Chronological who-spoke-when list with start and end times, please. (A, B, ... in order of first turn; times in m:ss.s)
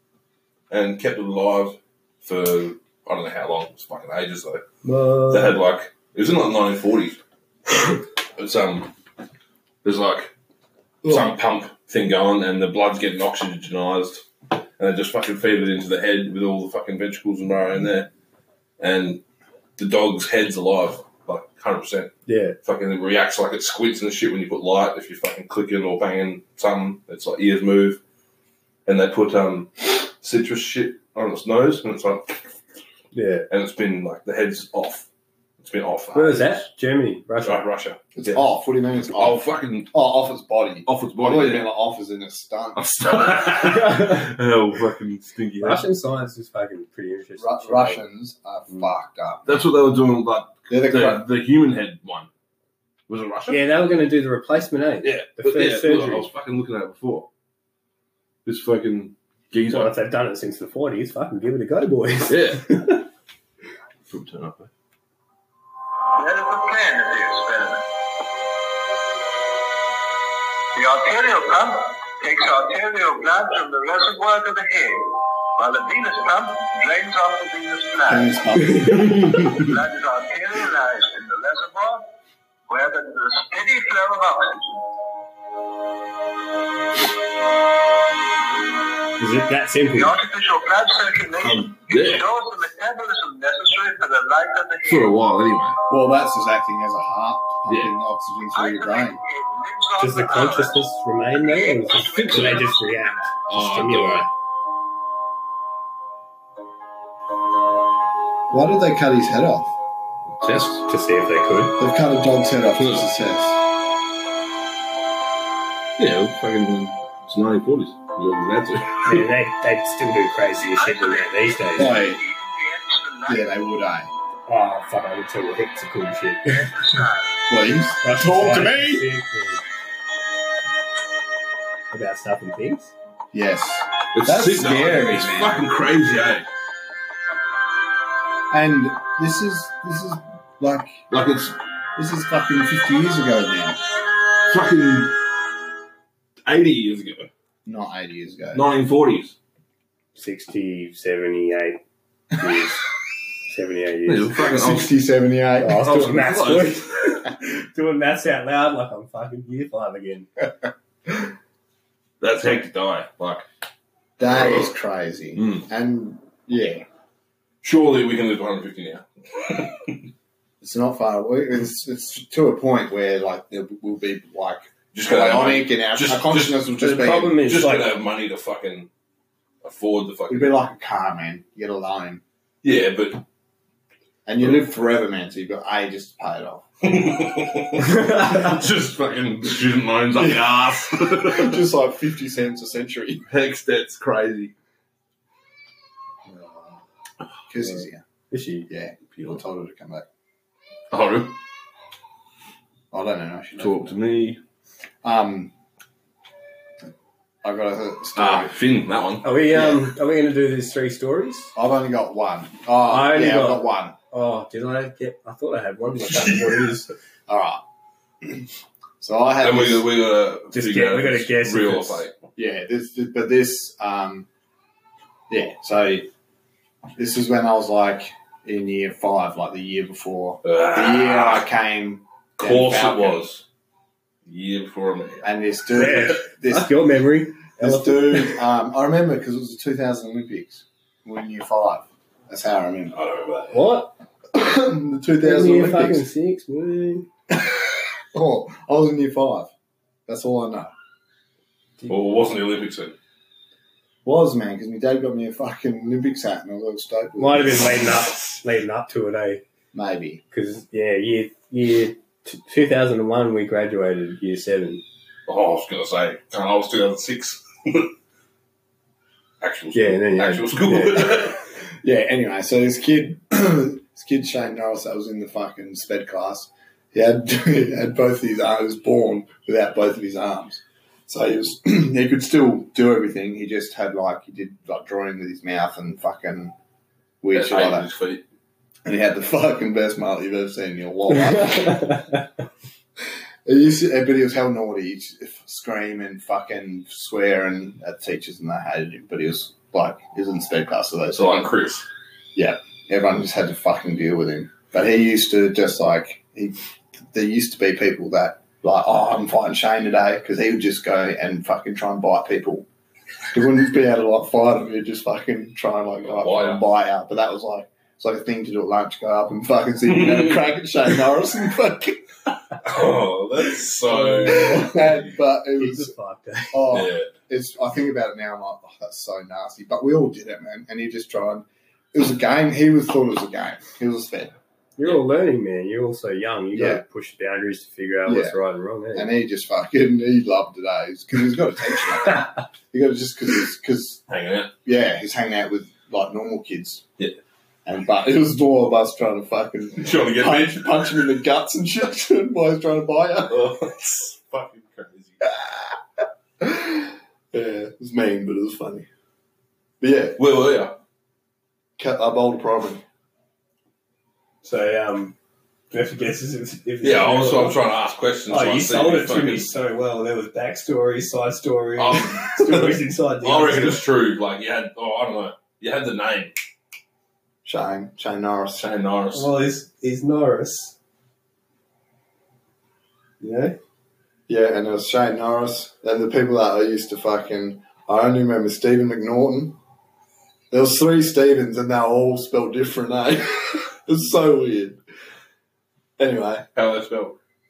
0:00.7-0:04.6 A
0:04.8-0:05.6 B
0:05.3-0:07.2 A
0:07.8-0:08.9 A
0:09.8-0:10.3 A
0:11.0-0:11.3 C
0:11.0-0:18.1 A
0:18.8-0:19.2 A
0:19.8-0:28.0 A
0:22.3-0:22.6 B
0:28.9-0:32.4 A
0:33.1-0:33.5 B
0:33.5-0:35.1 A
0:35.6-0:36.7 A
0:36.1-0:37.6 B
0:37.4-0:38.4 A
0:38.2-0:39.4 C
0:39.2-0:40.0 A
0:39.9-0:42.8 C
0:40.9-0:41.7 A
0:42.8-0:45.8 A
0:43.4-0:44.3 B
0:45.6-0:48.0 B
0:47.4-0:49.6 C
0:49.5-0:52.3 A
0:50.7-0:51.2 C
0:53.1-0:53.7 A
0:53.5-0:56.3 B
0:55.0-0:57.3 A
0:58.4-0:59.9 A
0:59.7-1:03.1 B
1:02.3-1:02.8 A
1:04.1-1:04.7 A
1:06.1-1:07.8 D
1:10.7-1:18.4 D
1:18.1-1:19.2 C
1:18.6-1:19.6 B
1:19.5-1:22.1 D
1:22.7-1:24.8 D
1:29.2-1:30.2 B
1:29.9-1:35.1 D
1:31.4-1:32.3 A
1:34.8-1:35.8 A
1:35.9-1:39.2 C
1:37.7-1:37.9 A
1:38.5-1:40.8 D
1:40.0-1:44.3 B
1:41.4-1:43.3 D
1:42.2-1:42.8 A
1:43.5-1:44.3 A
1:48.5-1:49.7 C
1:50.4-1:50.9 A
1:50.9-1:51.8 B
1:51.8-1:53.6 C
1:52.8-1:53.1 A
1:56.0-1:59.3 A
1:59.0-2:01.9 B
2:00.7-2:03.6 D
2:01.8-2:02.2 C
2:03.3-2:04.1 C
2:04.5-2:06.7 B
2:06.8-2:07.3 D
2:07.5-2:09.0 C
2:08.0-2:09.6 B
2:11.9-2:12.9 B
2:13.3-2:15.6 C
2:14.1-2:16.5 A
2:18.5-2:21.1 C
2:21.1-2:21.6 A
2:22.0-2:23.8 C
2:24.5-2:25.2 A
2:26.5-2:27.3 A
2:27.6-2:28.7 C
2:28.5-2:29.4 A
2:30.2-2:31.8 B
2:32.4-2:32.8 B
2:33.5-2:34.4 B
2:34.1-2:35.0 A
2:34.4-2:36.0 C
2:35.6-2:40.3 B
2:35.8-2:36.9 A
2:42.2-2:43.4 A
2:44.2-2:46.8 C
2:44.3-2:44.7 A
2:45.4-2:45.7 A
2:47.6-2:50.0 A
2:50.6-2:57.4 C
2:54.9-2:56.7 A
2:56.8-2:58.0 B
2:57.3-2:58.9 A
2:59.6-3:00.6 A
3:00.3-3:02.2 C
3:02.6-3:03.2 A
3:04.3-3:06.6 C
3:06.8-3:11.6 A
3:07.8-3:08.5 B
3:10.2-3:13.2 C
3:13.3-3:14.5 A
3:16.3-3:16.8 C
3:17.5-3:18.0 C
3:18.3-3:18.7 B
3:18.7-3:20.0 C
3:20.9-3:21.4 A
3:22.9-3:23.8 C
3:23.6-3:24.4 A
3:25.0-3:25.5 C
3:27.4-3:28.5 C
3:28.2-3:29.3 A
3:29.2-3:31.5 B
3:29.5-3:29.8 C
3:31.6-3:34.0 C
3:32.9-3:36.9 B
3:36.2-3:36.5 A
3:37.3-3:37.6 C
3:39.0-3:39.9 C
3:39.4-3:42.2 A
3:40.5-3:42.0 B
3:42.4-3:44.3 C
3:45.3-3:46.1 C
3:47.0-3:53.2 C
3:50.4-3:51.5 A
3:52.4-3:53.4 A
3:54.3-3:55.3 A
3:55.2-3:56.8 C
3:55.7-3:58.4 B
3:57.6-4:03.0 C
4:02.9-4:03.6 A
4:03.5-4:03.9 B
4:04.3-4:06.1 C
4:05.2-4:07.1 B
4:07.3-4:07.6 C
4:08.1-4:09.5 C
4:10.1-4:10.7 C
4:11.9-4:13.0 A
4:14.0-4:17.7 C
4:17.2-4:19.4 B
4:19.7-4:20.2 C
4:20.3-4:24.8 B
4:25.3-4:27.9 A
4:29.4-4:31.4 A
4:29.8-4:31.2 B
4:31.8-4:46.5 C
4:47.2-4:47.9 C
4:47.3-4:48.2 A
4:48.8-4:52.0 C
4:51.1-4:52.2 B
4:53.4-5:01.5 C
5:01.1-5:01.9 A
5:02.4-5:06.6 C
5:07.1-5:12.7 C
5:13.3-5:22.0 C
5:16.1-5:16.6 A
5:19.8-5:20.4 A
5:22.6-5:25.1 A
5:24.0-5:24.8 B
5:24.2-5:25.9 C
5:25.6-5:26.6 B
5:26.5-5:34.3 C
5:26.7-5:27.1 A
5:34.8-5:39.1 B
5:36.6-5:36.8 C
5:38.1-5:38.4 C
5:38.9-5:44.0 C
5:44.1-5:44.5 A
5:44.6-5:46.8 C
5:47.6-5:53.5 C
5:49.8-5:51.1 A
5:53.3-5:55.2 A
5:55.2-5:55.8 C
5:56.4-5:58.9 C
5:59.8-6:00.2 C
6:00.2-6:00.8 A
6:01.8-6:02.8 C
6:04.4-6:05.2 B
6:05.7-6:07.7 B
6:06.8-6:09.5 A
6:08.3-6:13.9 B
6:11.8-6:16.3 A
6:17.4-6:18.7 C
6:18.6-6:19.3 A
6:19.1-6:20.8 B
6:23.2-6:23.6 B
6:24.3-6:29.6 C
6:30.5-6:34.8 C
6:36.0-6:36.5 C
6:36.6-6:37.2 A